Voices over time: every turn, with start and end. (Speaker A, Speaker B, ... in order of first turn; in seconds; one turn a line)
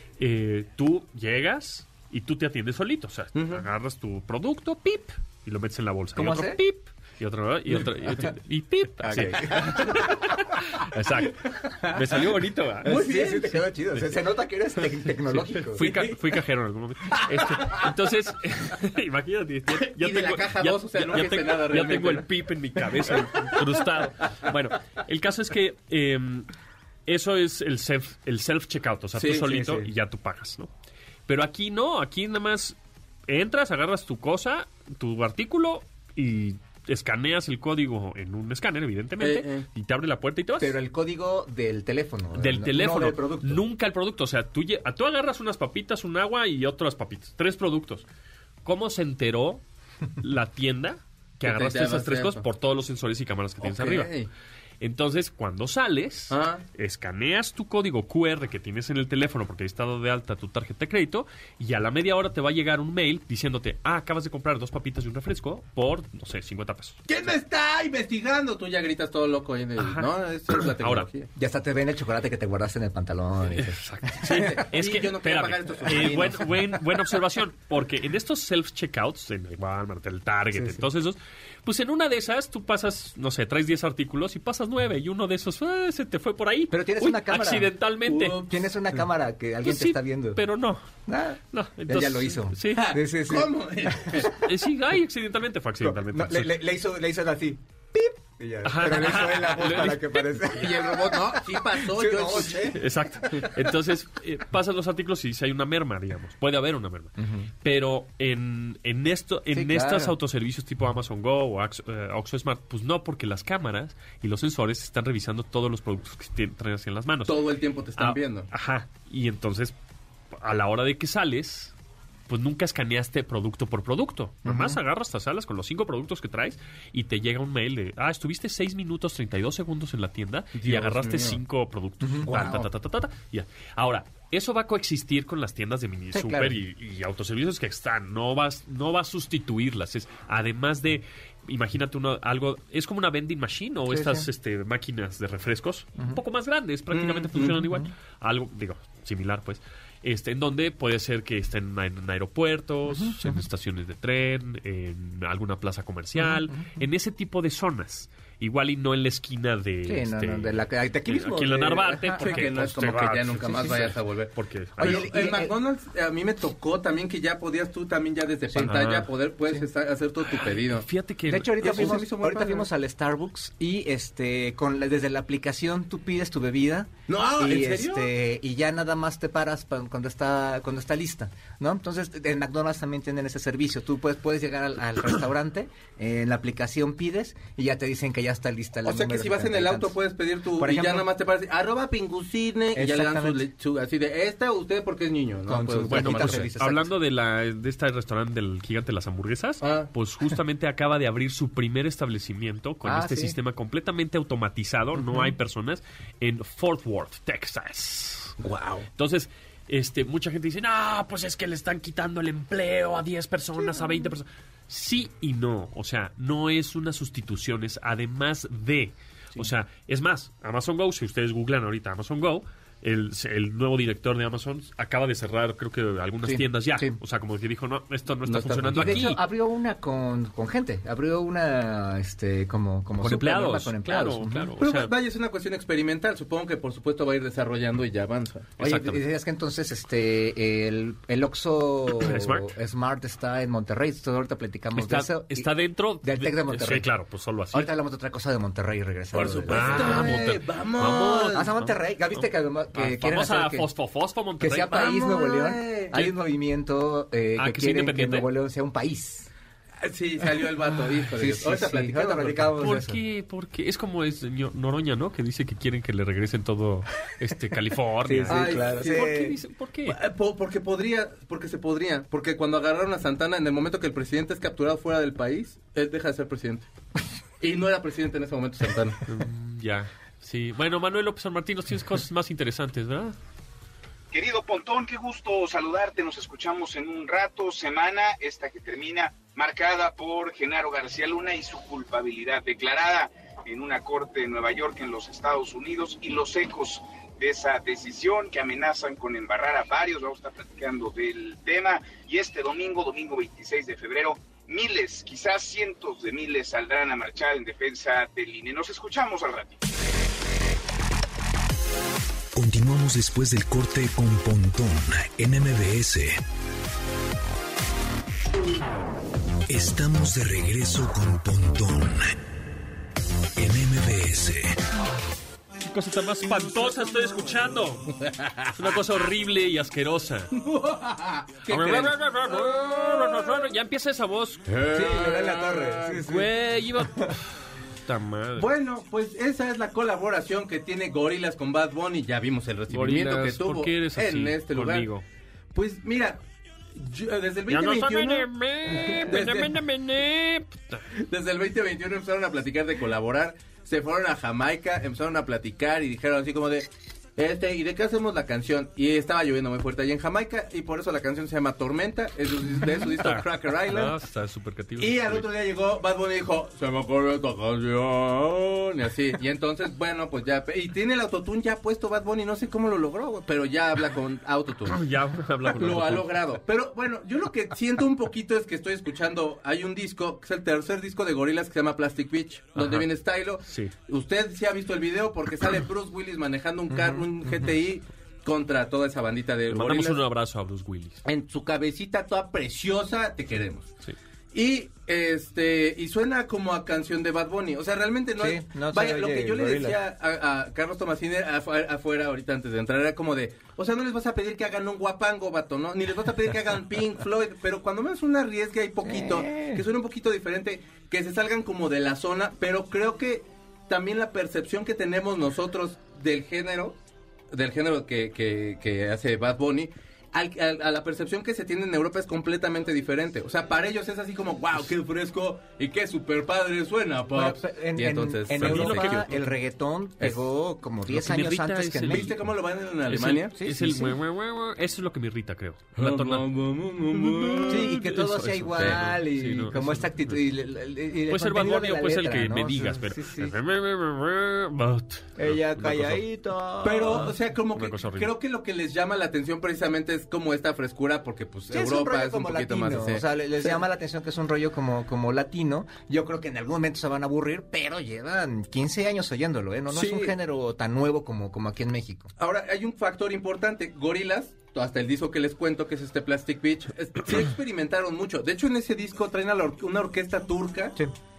Speaker A: 0.2-12.9
Speaker B: 3.4-3.6
Speaker C: 6.2-6.6
Speaker C: 7.7-8.3
Speaker C: 9.0-10.3
Speaker B: 12.8-13.7
Speaker C: 12.8-16.1
Speaker A: 15.3-26.5
Speaker B: 15.8-16.1
Speaker B: 19.7-22.3
Speaker A: 27.1-30.7
Speaker B: 29.2-29.5
Speaker C: 29.4-29.9
Speaker A: 31.3-32.8
Speaker A: 33.3-40.8
Speaker B: 39.2-39.7
Speaker C: 40.6-43.6
Speaker A: 42.4-48.0
Speaker A: 48.6-49.6
Speaker A: 50.2-54.1
Speaker B: 51.4-52.4
Speaker B: 53.6-54.3
Speaker A: 54.8-67.2
Speaker B: 56.3-56.6
Speaker B: 67.1-71.3
Speaker A: 69.8-71.1
Speaker C: 71.4-74.5
Speaker A: 73.5-88.4
Speaker B: 74.2-76.5
Speaker C: 80.5-80.9
Speaker C: 86.7-87.8
Speaker B: 88.0-88.6
Speaker C: 88.3-90.4
Speaker A: 89.6-90.8
Speaker C: 91.1-94.3
Speaker A: 91.5-93.0
Speaker B: 92.8-94.4
Speaker A: 94.3-96.6
Speaker C: 95.8-103.5
Speaker A: 98.6-100.7
Speaker B: 100.6-102.8
Speaker A: 102.7-117.4
Speaker C: 107.2-107.5
Speaker C: 109.5-110.2
Speaker B: 117.3-118.5
Speaker A: 118.0-119.8
Speaker A: 120.3-121.7
Speaker A: 122.3-165.1
Speaker C: 124.4-124.8
Speaker B: 130.6-131.4
Speaker C: 132.0-132.7
Speaker C: 136.1-136.6
Speaker C: 143.9-144.3
Speaker B: 146.9-147.6
Speaker C: 147.6-147.9
Speaker C: 152.9-153.4
Speaker C: 156.2-156.8
Speaker C: 159.8-162.7
Speaker B: 162.2-170.9
Speaker C: 163.4-163.8
Speaker C: 164.8-165.5
Speaker C: 168.5-168.9
Speaker A: 168.7-169.1
Speaker A: 170.6-172.0
Speaker C: 171.3-190.0
Speaker B: 171.6-172.7
Speaker B: 177.1-178.1
Speaker B: 188.8-196.5
Speaker C: 190.6-191.1
Speaker C: 192.8-193.4
Speaker C: 195.5-196.9
Speaker A: 195.9-208.3
Speaker B: 199.6-199.9
Speaker C: 202.8-203.4
Speaker C: 205.0-205.3
Speaker B: 208.4-208.9
Speaker A: 209.0-229.2
Speaker C: 213.6-214.1
Speaker B: 228.3-229.1
Speaker C: 228.7-234.5
Speaker A: 233.0-234.9
Speaker B: 234.6-238.5
Speaker A: 238.6-239.1
Speaker C: 238.6-246.9
Speaker A: 241.9-242.5
Speaker A: 244.8-247.7
Speaker C: 247.5-250.2
Speaker B: 249.1-251.5
Speaker A: 249.1-254.8
Speaker C: 251.2-253.7
Speaker C: 254.4-259.3
Speaker B: 254.7-255.9
Speaker A: 257.4-258.3
Speaker B: 259.8-262.5
Speaker C: 261.1-263.0
Speaker A: 262.6-270.0
Speaker C: 268.0-269.4
Speaker B: 268.3-269.3
Speaker B: 269.9-276.7
Speaker B: 277.4-279.0
Speaker A: 279.1-283.2
Speaker D: 284.1-309.6
Speaker E: 312.4-316.2
Speaker E: 319.5-322.1
Speaker E: 323.4-324.6
Speaker A: 325.6-327.9
Speaker B: 328.0-328.5
Speaker A: 328.5-330.3
Speaker B: 330.4-332.0
Speaker A: 331.5-334.4
Speaker B: 334.5-336.0
Speaker C: 334.7-337.1
Speaker A: 335.9-338.5
Speaker B: 338.4-344.9
Speaker A: 342.7-345.0
Speaker B: 345.5-346.2
Speaker B: 346.8-348.3
Speaker A: 347.5-350.8
Speaker B: 348.8-349.6
Speaker B: 351.0-364.0
Speaker A: 362.6-365.3
Speaker B: 364.8-374.8
Speaker A: 374.7-376.1
Speaker B: 375.6-390.0
Speaker A: 382.6-382.9
Speaker A: 383.5-383.7
Speaker C: 386.7-387.5
Speaker A: 389.5-391.1
Speaker B: 391.1-393.7
Speaker B: 394.3-416.8
Speaker C: 398.2-399.8
Speaker C: 408.8-409.6
Speaker B: 417.3-429.2
Speaker C: 427.1-432.2
Speaker A: 428.3-429.1
Speaker A: 430.9-432.1
Speaker B: 431.9-433.3
Speaker A: 432.9-436.3
Speaker C: 433.3-434.0
Speaker B: 435.8-437.7
Speaker A: 437.0-440.2
Speaker C: 437.5-443.3
Speaker B: 438.6-438.9
Speaker A: 441.1-446.0
Speaker C: 445.2-447.2
Speaker B: 446.6-453.6
Speaker A: 447.5-448.1
Speaker C: 451.5-462.1
Speaker B: 459.7-460.2
Speaker B: 462.2-470.8